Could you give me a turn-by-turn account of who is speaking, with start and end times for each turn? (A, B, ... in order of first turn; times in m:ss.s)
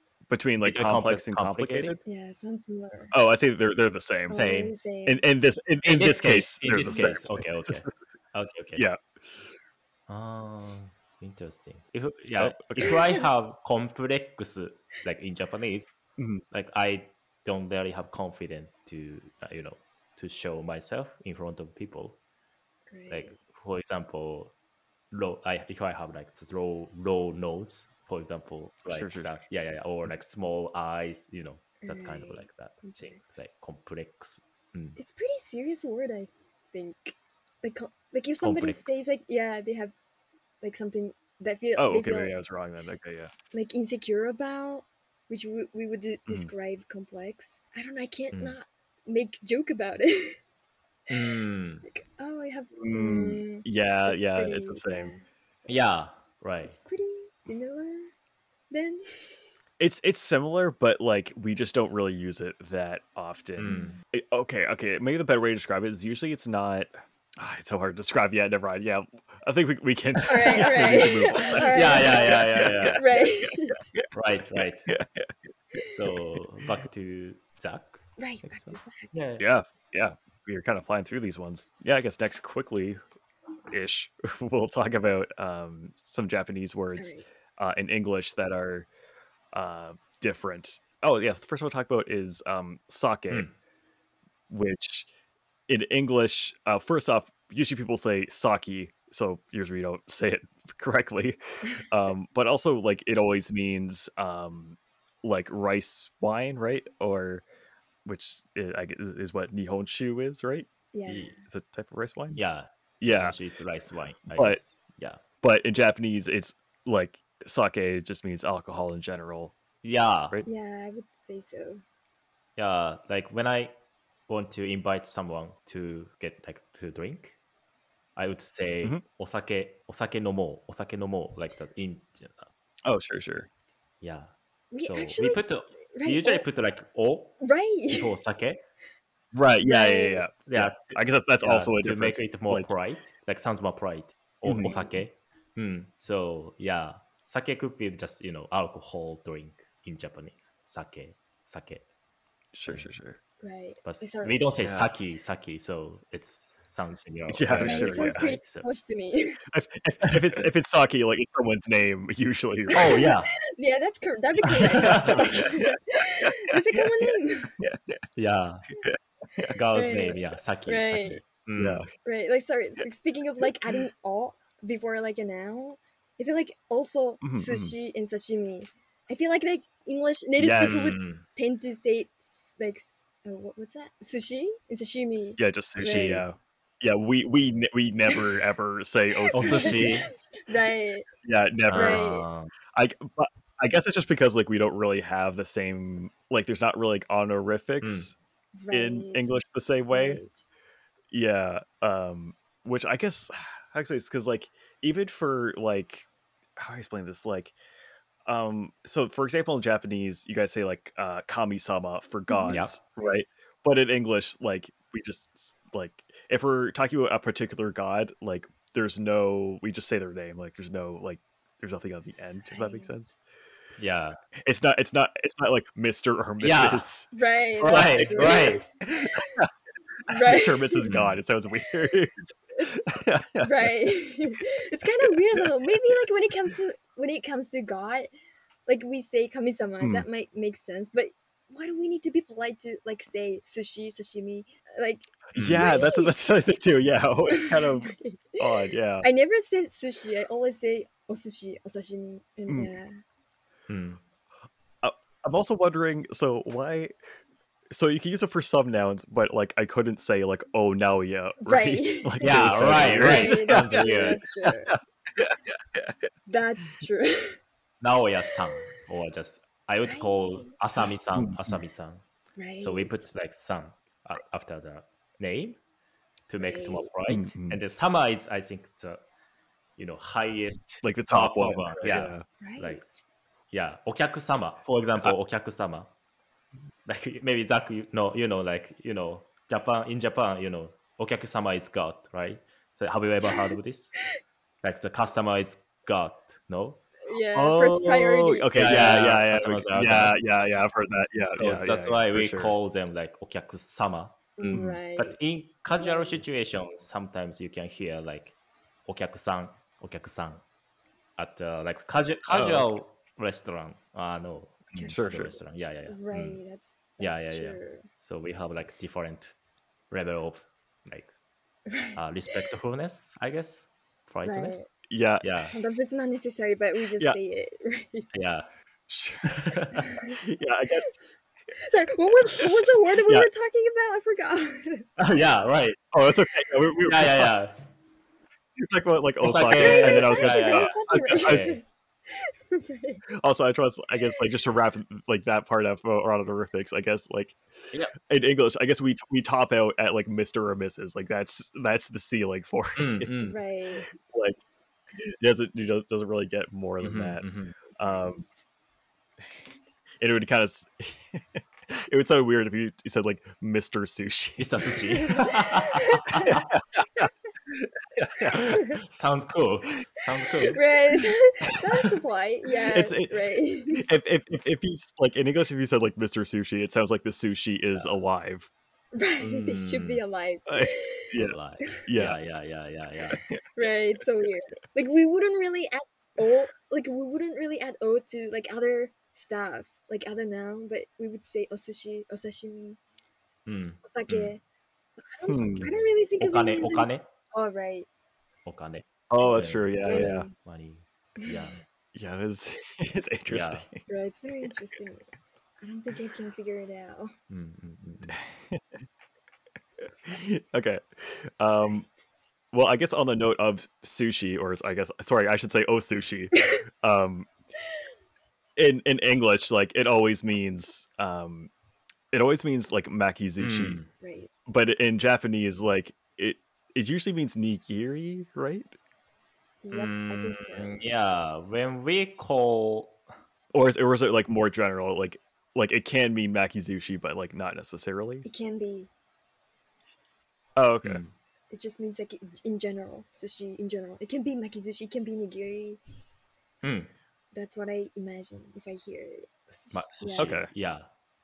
0:00.3-0:02.0 A
0:00.6-0:02.0 B
0:02.0-0:03.1 C
0:03.1-0:07.9 A
0:04.3-0:05.2 C
0:04.4-0:04.7 B
0:05.8-0:08.8 B
0:08.8-0:09.0 A
0:10.1-0:15.9 B
0:12.4-0:13.2 A
0:12.9-0:13.2 C
0:16.2-0:16.4 A
0:16.5-0:22.2 B
0:22.9-0:23.4 C
0:23.1-0:24.5 B
0:25.1-0:35.0 B
0:28.9-0:29.3 A
0:31.8-0:33.4 C
0:35.0-0:39.9 C
0:38.4-0:39.0 B
0:40.6-0:42.3 C
0:41.8-0:43.3 A
0:43.5-0:50.4 C
0:51.1-0:51.8 B
0:51.2-0:55.8 C
0:52.8-0:55.1 A
0:55.7-0:56.7 B
0:56.6-0:58.1 C
0:58.7-0:59.4 C
0:59.8-1:14.1 A
1:03.6-1:04.0 B
1:03.7-1:04.0 C
1:10.3-1:13.8 C
1:10.5-1:13.0 B
1:14.1-1:14.9 B
1:14.6-1:15.3 A
1:15.8-1:19.5 B
1:18.2-1:19.2 C
1:19.4-1:23.0 A
1:23.7-1:28.9 A
1:26.9-1:27.3 C
1:29.5-1:33.4 A
1:34.5-1:35.1 A
1:35.7-1:47.4 A
1:48.0-1:52.4 A
1:50.9-1:51.4 C
1:52.3-1:55.2 B
1:53.0-1:53.4 A
1:55.4-1:59.5 A
1:59.8-2:00.4 B
2:00.4-2:01.8 C
2:02.6-2:03.7 B
2:04.3-2:07.4 B
2:08.2-2:12.5 B
2:12.8-2:13.5 A
2:14.0-2:14.3 B
2:14.7-2:16.4 C
2:14.9-2:18.6 B
2:17.4-2:18.2 C
2:19.3-2:22.7 A
2:19.6-2:20.2 C
2:20.5-2:31.8 B
2:24.4-2:24.8 A
2:24.6-2:25.0 C
2:32.5-2:33.2 A
2:33.4-2:34.4 C
2:33.8-2:38.7 B
2:34.6-2:34.9 A
2:37.3-2:38.3 A
2:37.6-2:39.4 C
2:39.5-2:43.1 A
2:40.0-2:40.4 B
2:42.7-2:43.3 B
2:42.7-2:47.5 C
2:44.6-2:45.7 A
2:44.6-2:45.3 B
2:46.2-2:48.0 A
2:48.2-2:48.6 B
2:48.8-2:49.5 A
2:49.5-2:51.8 B
2:49.7-2:51.2 C
2:51.6-2:51.9 A
2:52.0-3:06.2 C
2:57.2-2:57.7 A
3:00.4-3:01.0 A
3:00.6-3:01.2 B
3:05.4-3:10.0 A
3:05.8-3:06.2 B
3:09.1-3:11.1 C
3:09.3-3:10.1 B
3:11.2-3:12.0 A
3:11.7-3:12.5 B
3:11.8-3:12.2 C
3:12.7-3:18.1 A
3:17.8-3:18.1 B
3:18.6-3:19.3 C
3:18.7-3:20.2 A
3:19.9-3:20.4 C
3:21.1-3:26.0 A
3:26.6-3:27.5 A
3:28.2-3:43.2 A
3:32.3-3:32.6 C
3:42.5-3:42.9 C
3:43.8-3:44.2 B
3:44.4-3:47.1 A
3:46.4-3:46.9 B
3:47.1-3:48.6 C
3:47.6-3:49.5 A
3:47.6-3:48.6 B
3:50.1-3:50.9 C
3:50.1-3:53.7 A
3:50.8-3:51.2 B
3:52.6-3:52.9 C
3:53.4-3:58.1 C
3:58.7-4:06.2 C
3:59.8-4:00.0 A
4:05.3-4:09.0 A
4:05.3-4:05.6 B
4:07.3-4:12.9 C
4:13.7-4:14.0 B
4:14.8-4:16.9 A
4:17.7-4:26.0 A
4:21.4-4:24.7 C
4:22.2-4:24.2 B
4:26.3-4:27.4 C
4:27.8-4:32.0 B
4:28.4-4:28.7 C
4:29.8-4:30.5 C
4:31.2-4:31.6 A
4:32.4-4:33.0 C
4:32.6-4:35.6 B
4:36.3-4:39.0 B
4:36.4-4:36.9 C
4:37.1-4:37.6 A
4:39.8-4:42.8 B
4:40.8-4:42.2 A
4:42.4-4:43.0 C
4:43.5-4:45.9 B
4:46.8-4:53.9 B
4:54.6-4:56.8 B
4:57.0-4:58.8 C
4:57.3-5:02.5 A
4:58.5-5:00.2 B
5:01.4-5:08.3 B
5:04.4-5:05.2 C
5:04.5-5:04.8 A
5:05.7-5:06.2 C
5:08.8-5:10.4 B
5:11.2-5:16.4 B
5:12.3-5:12.7 A
5:14.7-5:15.4 C
5:14.9-5:15.3 A
5:15.9-5:17.9 C
5:17.0-5:19.3 B
5:19.9-5:21.1 B
5:21.7-5:22.0 C
5:22.0-5:24.7 B
5:24.2-5:24.7 C
5:24.9-5:25.2 A
5:25.2-5:25.5 B
5:25.5-5:28.1 C
5:28.1-5:28.5 B
5:28.9-5:29.6 A
5:29.3-5:29.9 B
5:29.9-5:30.2 C
5:30.1-5:30.9 A
5:31.6-5:34.9 C
5:35.0-5:35.8 B
5:35.9-5:37.4 A
5:36.8-5:37.5 B
5:38.6-5:41.6 A
5:39.2-5:41.6 B
5:39.6-5:43.0 C
5:43.2-5:47.4 A
5:48.1-5:53.3 A
5:52.8-5:53.4 B
5:53.3-5:53.9 C
5:53.9-5:54.4 A
5:55.0-5:57.2 A
5:56.8-5:57.6 B
5:57.7-5:58.3 C
5:57.8-5:58.2 A
6:00.0-6:04.7 A
6:04.4-6:06.5 B
6:04.9-6:06.4 C
6:06.2-6:08.4 A
6:08.3-6:10.6 B
6:08.4-6:08.8 C
6:10.3-6:13.8 C
6:12.7-6:13.1 A
6:13.7-6:18.5 A
6:17.7-6:18.0 B
6:18.9-6:21.1 C
6:19.2-6:20.0 B
6:20.5-6:22.2 A
6:21.2-6:23.2 B
6:23.1-6:23.4 A
6:23.6-6:32.8 C
6:33.4-6:34.3 B
6:33.8-6:34.4 C
6:35.0-6:37.9 C
6:35.3-6:35.6 A
6:35.4-6:37.0 B
6:38.4-6:41.6 B
6:39.1-6:40.3 A
6:39.8-6:40.3 C
6:41.2-6:41.4 C
6:41.9-6:43.9 A
6:43.3-6:43.6 B
6:43.9-6:47.1 C
6:47.3-6:48.2 B
6:48.1-6:48.6 A
6:50.0-6:51.9 A
6:52.5-6:57.3 A
6:58.6-7:01.5 A
7:02.1-7:03.8 A
7:03.4-7:03.9 B
7:04.0-7:04.3 C
7:04.4-7:08.7 A
7:09.6-7:10.8 C
7:09.7-7:13.0 B
7:13.5-7:18.2 A
7:18.2-7:18.9 C
7:20.6-7:21.0 A
7:20.8-7:21.1 B
7:21.5-7:25.8 C
7:26.6-7:26.9 B
7:27.3-7:30.3 C
7:29.7-7:30.9 B
7:30.2-7:30.5 A